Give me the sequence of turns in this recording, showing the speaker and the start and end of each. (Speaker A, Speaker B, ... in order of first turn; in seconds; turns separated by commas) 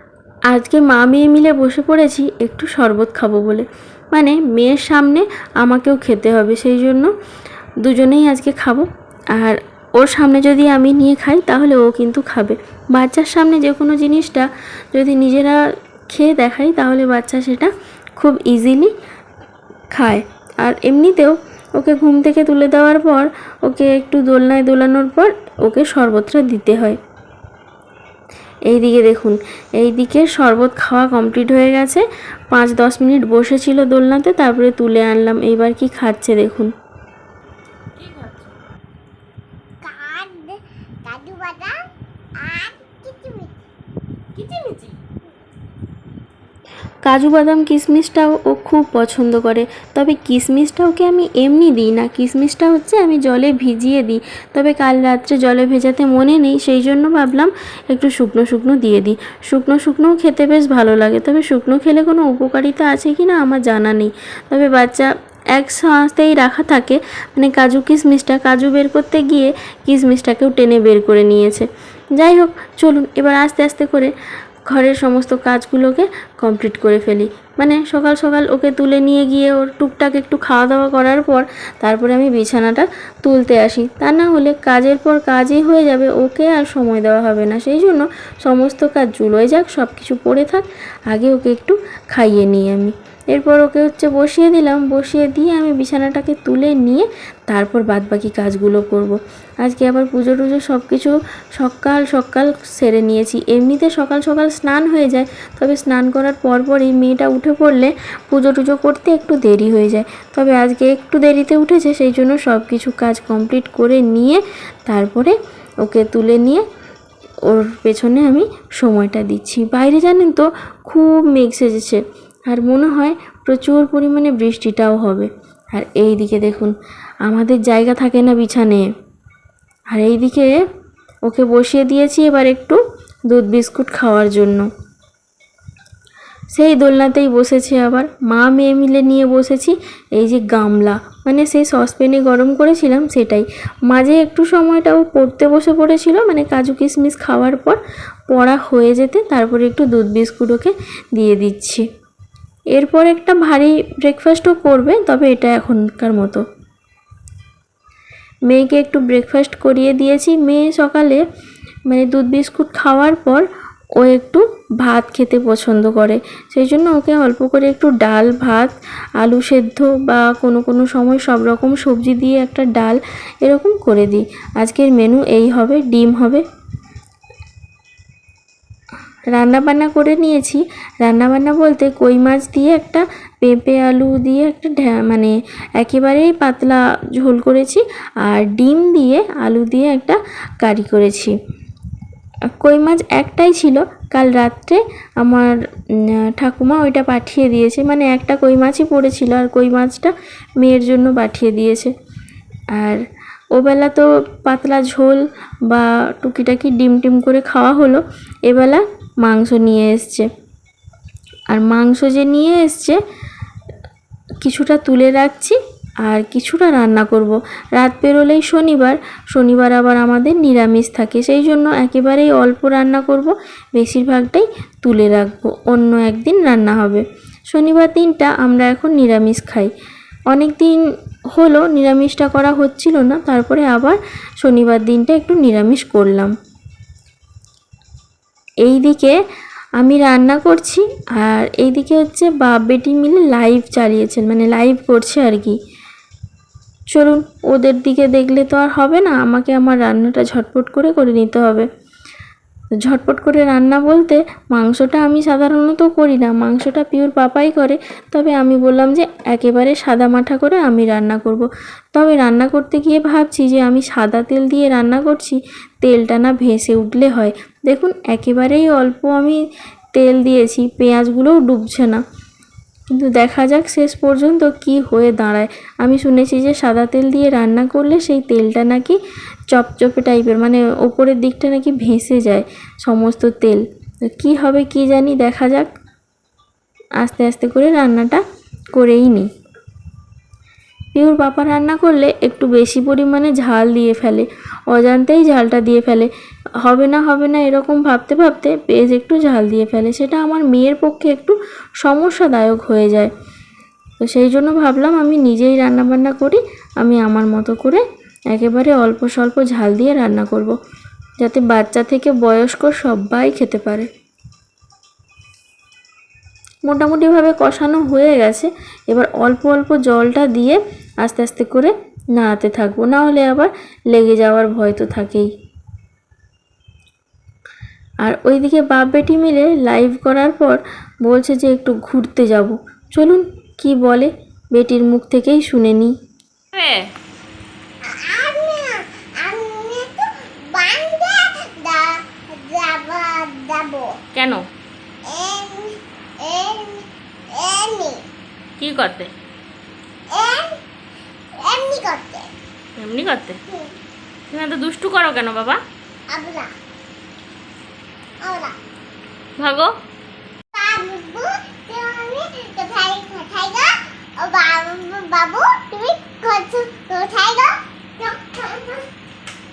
Speaker A: 0.5-7.1, Speaker A: 7.8-15.6, Speaker A: 16.1-18.9, Speaker A: 19.9-27.0, Speaker A: 28.7-36.7, Speaker B: 38.0-38.5, Speaker C: 39.8-41.8, Speaker C: 42.4-43.6, Speaker B: 44.4-45.0, Speaker A: 47.1-74.1, Speaker A: 74.7-116.6, Speaker A: 117.5-126.7, Speaker A: 127.3-128.8, Speaker A: 129.9-130.5, Speaker A: 131.3-134.7, Speaker A: 136.6-147.8, Speaker A: 148.3-151.8, Speaker A: 152.8-156.4, Speaker A: 158.5-161.2, Speaker A: 161.9-163.4, Speaker A: 164.0-176.4, Speaker A: 179.3-191.3, Speaker A: 192.6-195.6, Speaker A: 196.3-201.9, Speaker A: 202.8-203.0, Speaker A: 203.6-210.3, Speaker A: 211.5-213.0, Speaker A: 214.4-229.7, Speaker A: 230.3-230.8, Speaker A: 231.3-236.3, Speaker A: 238.6-239.2, Speaker A: 239.8-245.6, Speaker A: 246.9-251.7, Speaker A: 252.9-269.4, Speaker A: 269.9-272.0, Speaker A: 272.9-279.0, Speaker A: 279.5-285.7, Speaker A: 287.0-288.2, Speaker A: 288.8-289.3, Speaker A: 290.9-296.1, Speaker A: 296.6-303.1, Speaker A: 304.0-310.5, Speaker A: 311.2-313.9, Speaker A: 316.6-325.3, Speaker A: 328.1-335.9, Speaker B: 336.5-336.9, Speaker C: 337.9-344.0, Speaker B: 344.1-344.4, Speaker C: 345.0-348.0, Speaker B: 348.6-349.1, Speaker C: 350.1-350.6, Speaker C: 351.4-352.3, Speaker B: 352.8-353.4, Speaker B: 354.3-355.6, Speaker C: 356.1-356.5, Speaker C: 358.2-358.6, Speaker B: 359.4-359.8, Speaker C: 360.6-368.9